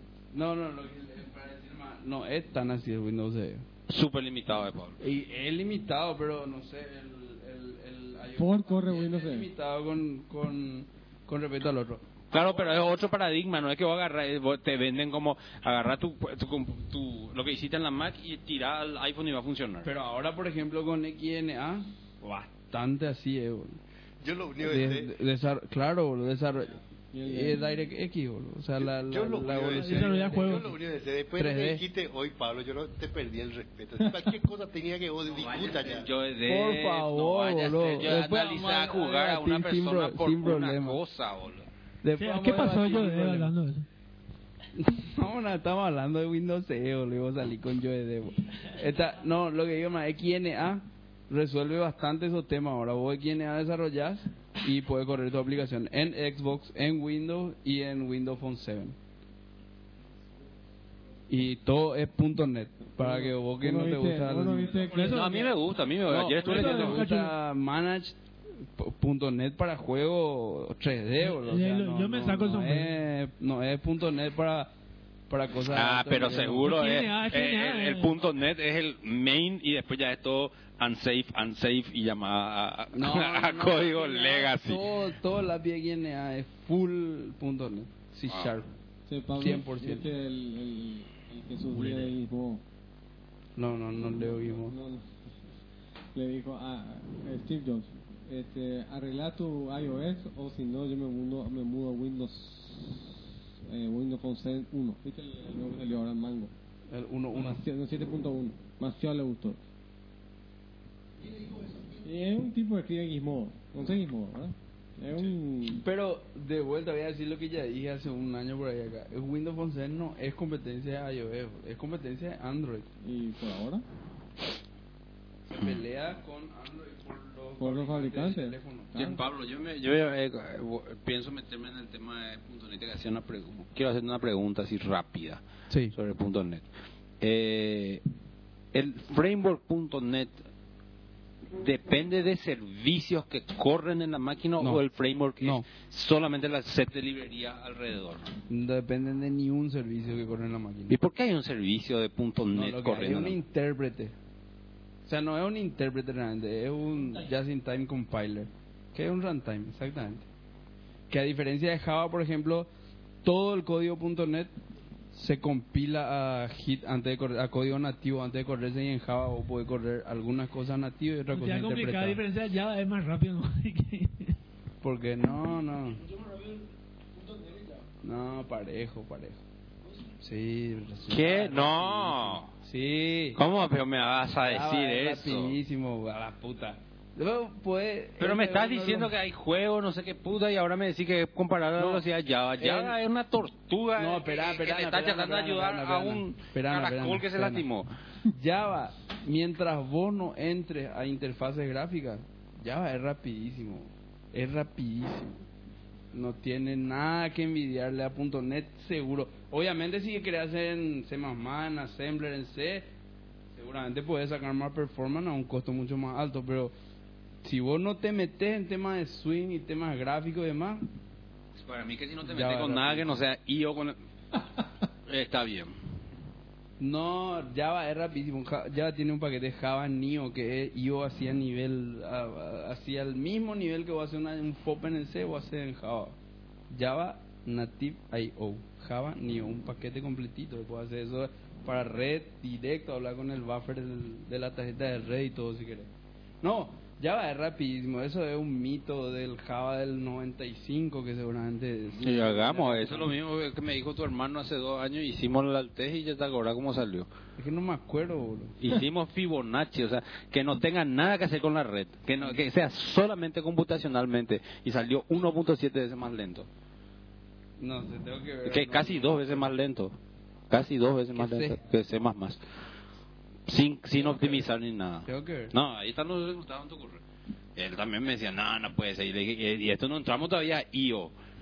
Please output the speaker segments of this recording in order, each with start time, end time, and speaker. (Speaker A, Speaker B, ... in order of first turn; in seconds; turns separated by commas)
Speaker A: 0.3-3.6, Speaker B: 3.9-5.0, Speaker A: 5.0-12.8, Speaker C: 8.4-9.5, Speaker B: 12.3-19.9, Speaker A: 19.8-23.8, Speaker D: 24.2-25.1, Speaker A: 24.6-30.7, Speaker C: 27.1-27.8, Speaker D: 28.8-36.1, Speaker E: 29.8-30.7, Speaker A: 31.4-31.8, Speaker B: 35.3-41.7, Speaker A: 36.5-41.0, Speaker A: 42.0-43.5, Speaker E: 42.2-43.9, Speaker A: 44.8-59.0, Speaker A: 61.3-64.9, Speaker C: 63.0-65.5, Speaker E: 64.9-65.4, Speaker B: 65.0-67.0, Speaker A: 66.1-74.7, Speaker E: 66.4-67.3, Speaker E: 71.2-72.9, Speaker A: 75.3-76.8, Speaker B: 75.7-84.9, Speaker E: 76.6-78.2, Speaker A: 82.9-88.7, Speaker C: 89.1-92.6, Speaker A: 89.4-90.1, Speaker A: 93.6-94.8, Speaker C: 94.0-95.1, Speaker C: 96.2-106.5, Speaker A: 106.9-107.6, Speaker C: 107.3-109.6, Speaker D: 111.2-112.0, Speaker C: 112.0-115.8, Speaker A: 115.7-122.9, Speaker C: 123.0-123.8, Speaker A: 125.5-129.0, Speaker C: 127.6-129.2, Speaker B: 128.9-136.7, Speaker A: 135.7-135.9, Speaker B: 137.2-138.0, Speaker B: 138.7-140.4, Speaker B: 141.6-148.3, Speaker A: 145.4-145.7, Speaker A: 148.5-151.0, Speaker B: 150.9-153.4, Speaker A: 152.5-154.2, Speaker A: 155.1-160.3, Speaker A: 161.1-162.7, Speaker A: 163.2-164.5, Speaker A: 165.1-172.2, Speaker E: 171.3-174.3, Speaker A: 174.8-176.1, Speaker A: 178.0-179.4, Speaker A: 180.2-183.4, Speaker B: 181.1-182.5, Speaker B: 183.4-185.6, Speaker A: 184.4-189.1, Speaker B: 188.2-197.9, Speaker A: 191.8-192.1, Speaker A: 192.6-193.0, Speaker A: 194.0-197.7, Speaker A: 198.3-205.4, Speaker A: 206.1-212.9, Speaker A: 213.6-216.7, Speaker A: 217.4-220.9, Speaker B: 221.6-224.0, Speaker A: 222.3-223.2, Speaker B: 225.1-225.8, Speaker A: 226.8-236.2, Speaker A: 236.7-245.9, Speaker A: 246.4-253.1, Speaker B: 252.0-257.1, Speaker A: 257.4-258.6, Speaker B: 258.6-266.5, Speaker A: 267.6-269.5, Speaker B: 268.4-269.9, Speaker B: 270.5-272.4, Speaker A: 271.1-271.6, Speaker B: 273.5-277.0, Speaker A: 274.0-274.5, Speaker A: 275.1-275.5, Speaker B: 277.6-281.1